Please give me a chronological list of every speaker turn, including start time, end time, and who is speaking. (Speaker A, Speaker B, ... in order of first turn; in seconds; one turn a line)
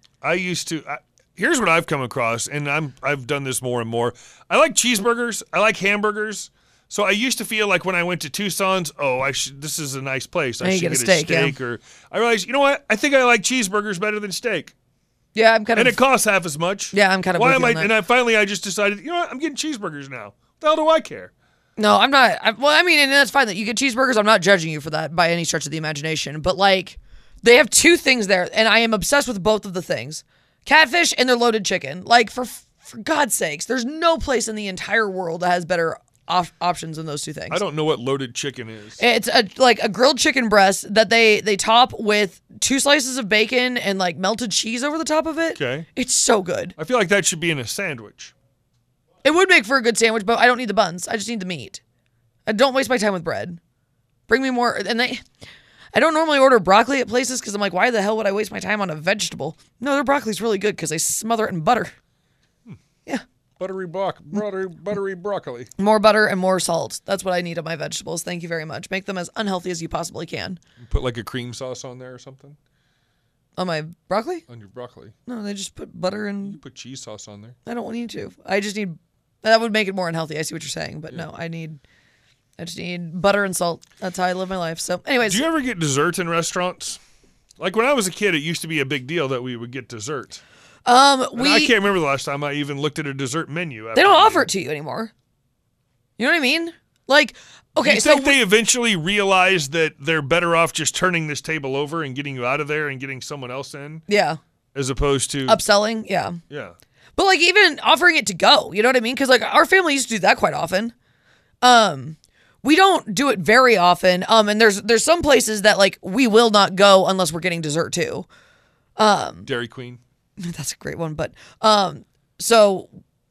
Speaker A: 0.2-14.7
Speaker B: 10.6-11.6
Speaker B: 15.3-16.0
Speaker A: 15.8-21.3
Speaker B: 16.9-17.9
Speaker B: 21.8-37.6
Speaker A: 37.5-39.0
Speaker B: 39.0-46.7
Speaker A: 45.5-45.9
Speaker A: 46.8-48.3
Speaker B: 49.2-51.8
Speaker B: 52.5-53.6
Speaker B: 54.3-55.2
Speaker B: 55.9-61.9
Speaker A: 63.6-65.7
Speaker B: 65.8-70.6
Speaker A: 70.8-72.6
Speaker B: 73.6-74.4
Speaker A: 74.5-75.1
Speaker B: 75.2-76.6
Speaker A: 76.4-77.5
Speaker B: 77.6-81.8
Speaker B: 82.6-85.5
Speaker A: 85.2-87.0
Speaker A: 87.6-90.4
Speaker B: 90.8-91.7
Speaker A: 91.3-94.5
Speaker B: 93.9-95.1
Speaker B: 96.2-98.4
Speaker A: 97.8-104.0
Speaker B: 104.1-104.4
Speaker A: 104.7-105.6
Speaker B: 105.5-106.4
Speaker A: 106.5-106.7
Speaker B: 107.2-110.9
Speaker B: 111.6-118.3
Speaker B: 119.0-119.5
Speaker A: 119.5-120.0
Speaker B: 120.4-122.9